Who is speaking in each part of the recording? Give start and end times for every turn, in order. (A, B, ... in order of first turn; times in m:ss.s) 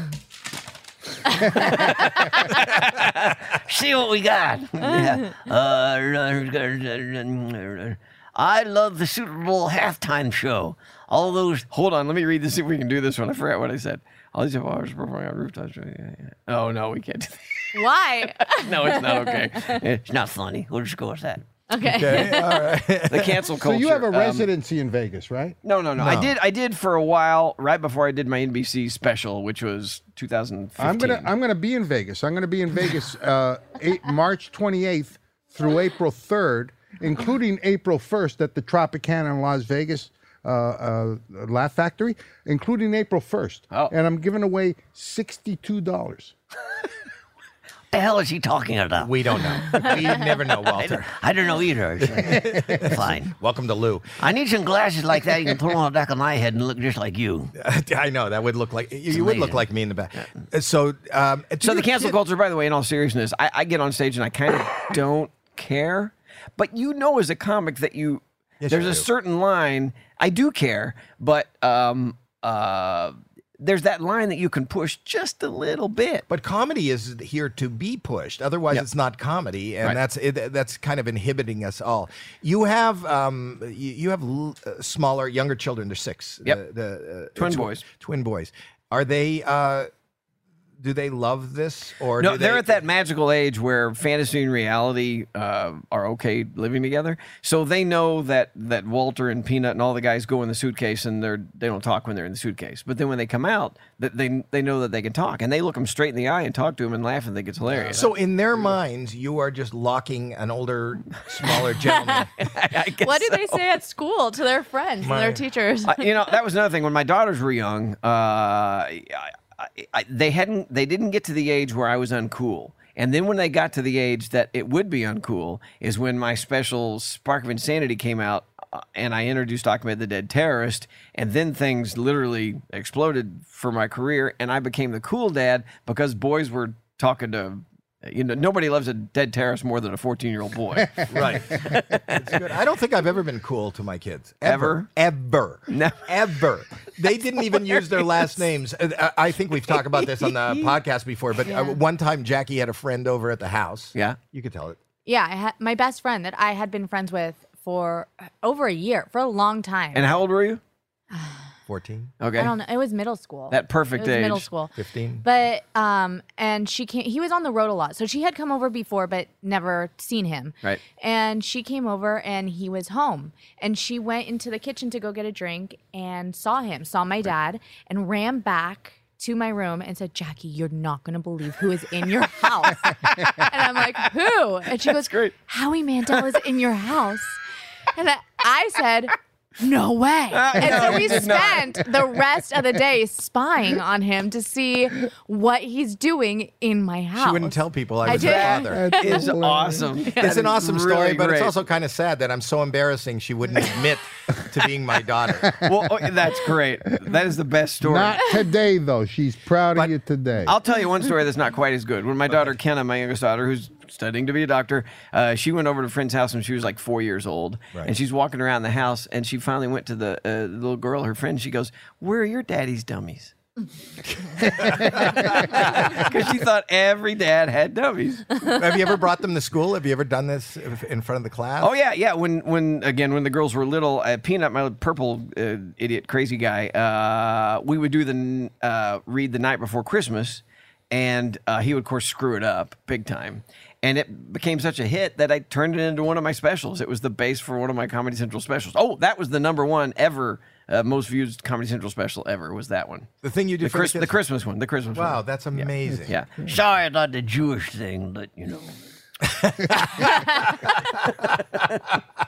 0:01.7-0:02.1 A
0:01.7-0:11.6 B
0:11.7-0:17.8 A
0:17.7-0:19.5 C
0:18.4-0:20.0 A
0:20.0-0:21.4 B
0:21.7-0:22.7 C
0:21.8-0:23.4 D
0:23.1-0:24.5 A
0:23.5-0:25.6 E
0:25.6-0:31.3 A
0:26.0-0:26.3 D
0:30.8-0:46.3 E
0:47.9-0:49.1 B
0:49.0-0:51.1 D
0:50.7-0:53.3 B
0:52.0-0:54.2 D
0:54.2-0:57.5 B
0:57.6-1:02.2 D
0:59.1-0:59.6 B
1:01.6-1:16.2 A
1:08.6-1:09.1 D
1:16.3-1:29.9 D
1:27.4-1:27.8 A
1:30.8-1:32.8 D
1:32.2-1:48.1 A
1:47.8-1:52.3 D
1:52.4-1:53.6 A
1:53.0-1:56.1 C
1:55.0-1:55.4 D
1:55.8-2:22.4 A
2:21.1-2:34.8 D
2:24.4-2:24.9 A
2:25.7-2:26.1 A
2:27.6-2:28.2 A
2:29.7-2:30.7 A
2:31.4-2:31.8 C
2:35.0-2:40.1 C
2:39.9-2:40.6 A
2:41.1-2:41.4 C
2:41.7-2:42.1 D
2:42.2-2:42.5 A
2:42.4-3:07.4 C
2:43.5-2:44.4 A
2:44.8-2:45.2 D
3:04.8-3:05.3 A
3:07.9-3:19.2 C
3:10.3-3:11.9 A
3:17.1-3:18.8 D
3:18.1-3:21.6 A
3:18.2-3:20.0 E
3:20.2-3:25.5 D
3:25.5-3:25.9 E
3:25.6-3:28.2 A
3:27.8-3:30.5 E
3:30.4-3:43.3 A
3:44.2-3:46.1 D
3:44.7-3:48.3 A
3:48.4-3:51.7 D
3:51.6-4:13.1 A
4:13.2-4:14.2 D
4:13.6-4:16.3 A
4:14.9-4:16.2 D
4:15.9-4:16.5 E
4:16.4-4:18.8 B
4:19.3-4:22.0 D